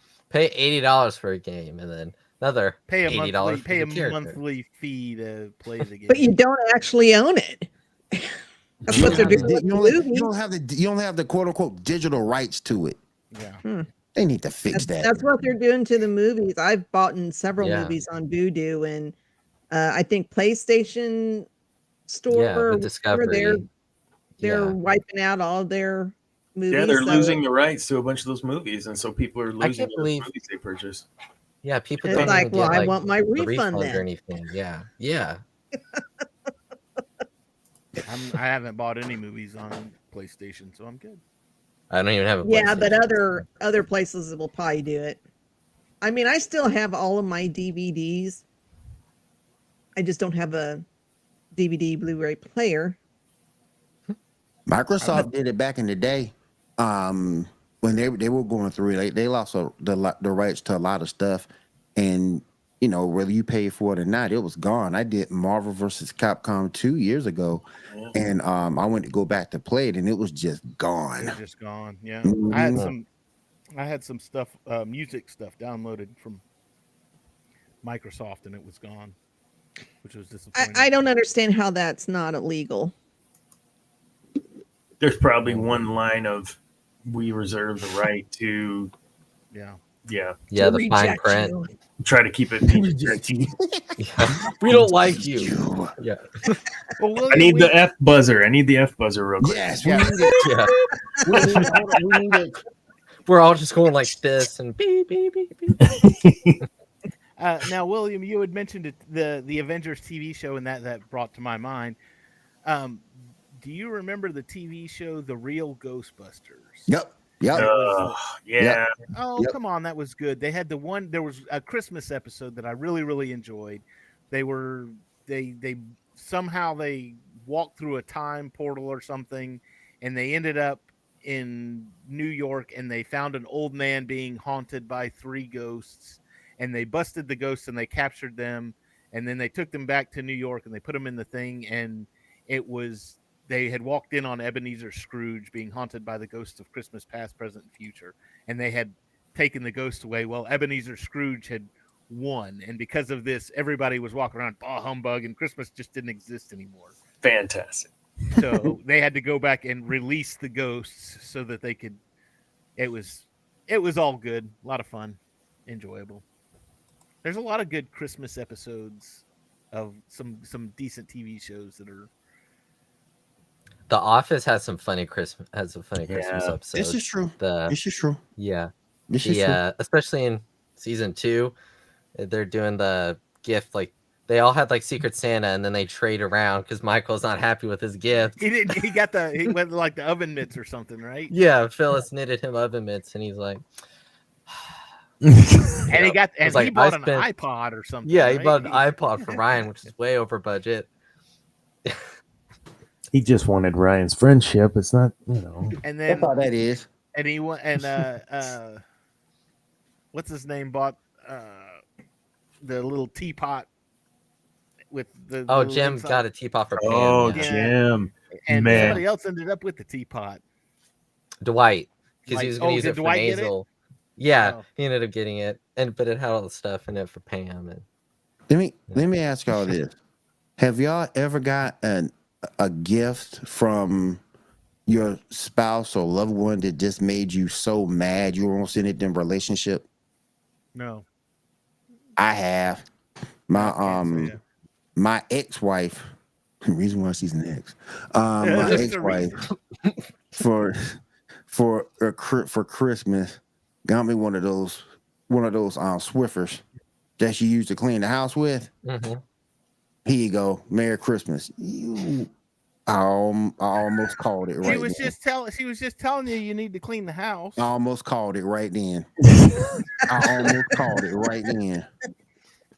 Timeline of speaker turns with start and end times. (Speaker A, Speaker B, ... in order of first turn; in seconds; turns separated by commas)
Speaker A: 0.3-4.4, Speaker B: 2.9-6.3, Speaker C: 6.1-10.3, Speaker D: 8.8-9.2, Speaker E: 8.9-13.0, Speaker A: 8.9-9.5, Speaker B: 13.3-13.6, Speaker E: 14.1-15.2, Speaker C: 14.7-19.1, Speaker A: 17.6-18.0, Speaker C: 19.7-21.5, Speaker C: 22.1-23.6, Speaker A: 22.3-23.6, Speaker A: 24.4-24.8, Speaker C: 24.4-27.4, Speaker D: 26.7-31.1, Speaker A: 29.6-30.2, Speaker A: 31.6-35.4, Speaker C: 32.0-34.0, Speaker D: 32.1-32.8, Speaker B: 38.0-41.2, Speaker A: 41.9-43.1, Speaker C: 42.4-45.2, Speaker C: 46.0-48.4, Speaker C: 50.0-50.8, Speaker C: 51.5-53.0, Speaker E: 54.7-71.3, Speaker B: 55.0-55.3, Speaker D: 67.9-68.1, Speaker B: 71.2-73.0, Speaker E: 72.2-72.9, Speaker B: 73.7-76.4, Speaker B: 77.8-79.1, Speaker B: 80.0-80.9, Speaker C: 80.5-82.9, Speaker D: 85.0-88.9, Speaker A: 85.5-85.8, Speaker B: 89.5-89.8, Speaker D: 90.0-90.3, Speaker A: 90.5-91.5, Speaker C: 90.5-91.7, Speaker D: 92.0-93.4, Speaker E: 92.6-95.9, Speaker A: 94.0-96.6, Speaker B: 97.0-97.7, Speaker D: 97.3-99.8, Speaker E: 99.4-100.7, Speaker B: 99.8-100.2, Speaker A: 100.4-100.7, Speaker C: 101.1-101.4, Speaker E: 101.2-102.6, Speaker A: 103.2-105.9, Speaker D: 105.8-106.6, Speaker B: 107.4-112.0, Speaker B: 112.6-116.9, Speaker E: 116.9-117.7, Speaker B: 117.5-118.2, Speaker D: 117.5-118.9, Speaker B: 119.1-156.9, Speaker D: 157.2-158.7, Speaker B: 158.3-162.0, Speaker B: 162.8-166.2, Speaker B: 167.2-172.1, Speaker A: 173.9-177.8, Speaker D: 176.1-176.6, Speaker E: 176.7-178.2, Speaker A: 178.4-178.7, Speaker E: 179.1-179.6, Speaker A: 179.2-181.5, Speaker A: 182.2-188.4, Speaker B: 188.4-191.3, Speaker A: 191.3-193.6, Speaker D: 195.2-195.8, Speaker B: 195.9-199.4, Speaker A: 195.9-197.3, Speaker A: 198.0-200.9, Speaker D: 203.1-205.8, Speaker B: 205.8-206.3, Speaker E: 206.1-206.9, Speaker B: 207.1-208.8, Speaker B: 210.1-211.8, Speaker B: 212.6-213.7, Speaker B: 214.9-216.2, Speaker A: 215.5-217.5, Speaker D: 216.8-219.0, Speaker B: 217.3-217.8, Speaker B: 218.4-220.4, Speaker A: 218.7-219.0, Speaker A: 221.4-223.7, Speaker B: 222.2-223.5, Speaker A: 224.2-227.8, Speaker B: 224.4-224.6, Speaker E: 228.5-229.9, Speaker E: 230.6-234.2, Speaker E: 234.9-239.8, Speaker B: 240.7-241.1, Speaker E: 242.2-242.8, Speaker E: 243.5-244.3, Speaker B: 243.5-244.4, Speaker E: 244.9-246.1, Speaker E: 246.6-249.4, Speaker B: 248.4-249.4, Speaker E: 250.4-256.6, Speaker E: 257.2-258.7, Speaker A: 258.8-259.2, Speaker E: 260.0-262.3, Speaker E: 262.9-265.1, Speaker B: 264.6-267.6, Speaker E: 267.6-269.1, Speaker E: 270.1-271.9